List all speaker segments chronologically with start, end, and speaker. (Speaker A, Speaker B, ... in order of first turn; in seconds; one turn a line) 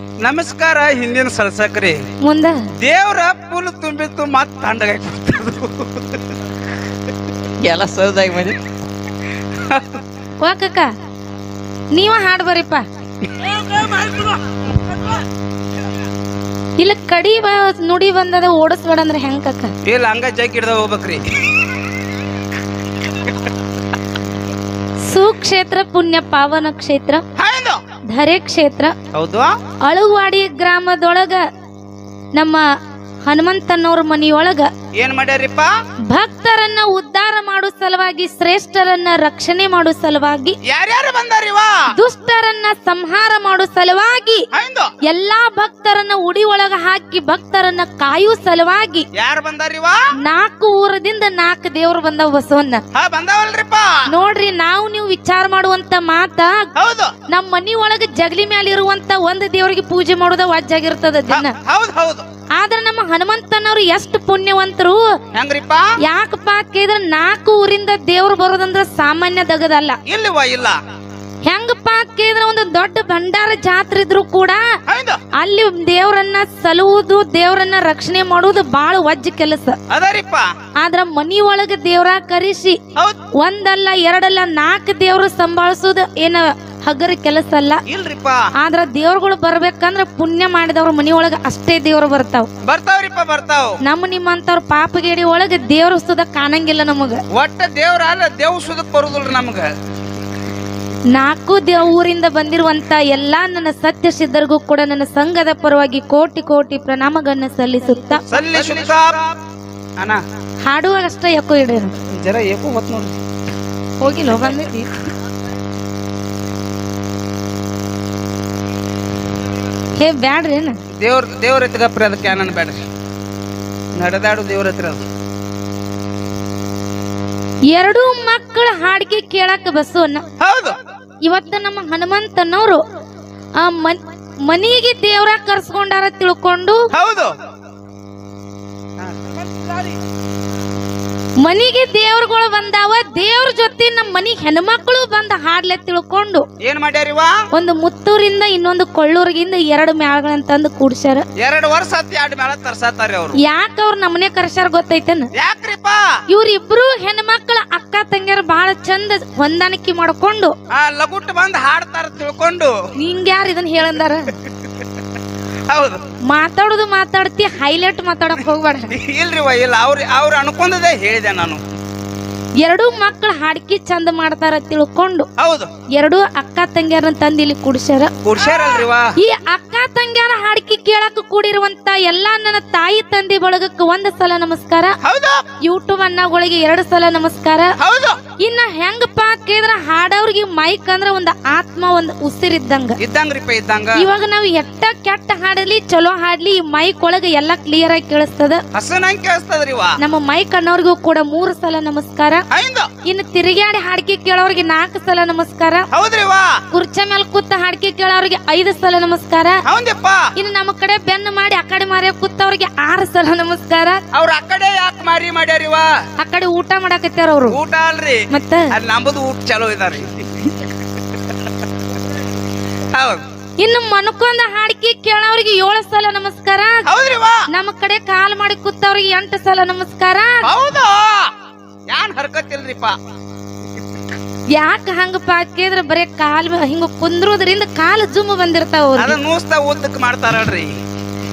Speaker A: 0.2-2.0
Speaker B: 2.2-2.6
Speaker A: 2.8-6.3
Speaker A: 7.6-8.6
Speaker A: 9.5-10.0
Speaker B: 10.4-10.9
Speaker B: 11.9-12.8
Speaker A: 13.3-15.1
Speaker B: 16.8-19.7
Speaker A: 19.8-21.2
Speaker B: 25.1-27.2
Speaker A: 27.4-27.8
Speaker B: 28.1-28.9
Speaker A: 29.1-29.5
Speaker B: 29.8-31.4
Speaker B: 32.4-32.6
Speaker B: 33.3-34.7
Speaker A: 35.0-35.7
Speaker B: 36.1-40.5
Speaker A: 40.6-41.8
Speaker B: 41.9-44.4
Speaker A: 44.5-44.9
Speaker B: 45.0-49.1
Speaker A: 49.1-50.0
Speaker B: 50.2-52.8
Speaker A: 52.9-54.0
Speaker B: 54.1-56.7
Speaker A: 56.8-57.1
Speaker B: 57.3-61.5
Speaker A: 61.3-62.2
Speaker B: 62.5-65.0
Speaker A: 65.3-65.8
Speaker B: 66.0-70.0
Speaker A: 70.0-70.8
Speaker B: 71.5-74.6
Speaker A: 74.9-75.2
Speaker B: 75.3-79.8
Speaker A: 79.9-80.5
Speaker B: 80.8-82.8
Speaker B: 83.4-87.8
Speaker A: 87.9-88.4
Speaker B: 88.6-92.5
Speaker A: 92.6-93.8
Speaker B: 93.8-97.2
Speaker A: 97.3-99.7
Speaker B: 101.1-108.4
Speaker A: 108.3-109.3
Speaker B: 110.6-111.9
Speaker A: 112.1-113.2
Speaker B: 114.0-114.9
Speaker A: 114.3-114.5
Speaker B: 120.0-120.8
Speaker A: 121.0-122.8
Speaker A: 124.0-125.0
Speaker B: 127.7-130.2
Speaker A: 130.4-130.8
Speaker B: 131.2-132.8
Speaker B: 133.6-136.9
Speaker A: 136.9-137.3
Speaker B: 141.4-146.4
Speaker A: 146.6-147.4
Speaker B: 147.5-151.3
Speaker A: 151.4-153.4
Speaker B: 153.4-155.3
Speaker A: 155.3-156.1
Speaker B: 156.3-160.5
Speaker A: 160.7-162.7
Speaker B: 162.9-164.3
Speaker A: 165.7-166.0
Speaker B: 166.3-168.9
Speaker A: 168.9-171.6
Speaker B: 172.6-175.3
Speaker A: 175.4-175.7
Speaker B: 175.9-185.0
Speaker A: 178.2-179.1
Speaker A: 185.0-185.4
Speaker B: 185.6-187.7
Speaker A: 187.8-188.2
Speaker B: 188.4-193.0
Speaker A: 193.0-194.1
Speaker B: 193.9-198.6
Speaker A: 198.7-200.0
Speaker B: 200.0-202.4
Speaker A: 202.5-202.9
Speaker B: 203.0-205.9
Speaker A: 205.9-206.6
Speaker B: 206.7-209.6
Speaker A: 209.7-210.3
Speaker B: 210.3-214.0
Speaker A: 214.1-215.9
Speaker B: 216.2-217.6
Speaker A: 217.5-220.7
Speaker B: 218.3-218.7
Speaker A: 222.9-223.2
Speaker B: 223.6-226.8
Speaker A: 226.8-227.4
Speaker B: 227.5-230.4
Speaker A: 230.4-231.3
Speaker A: 231.9-232.9
Speaker B: 234.5-239.2
Speaker A: 239.0-240.7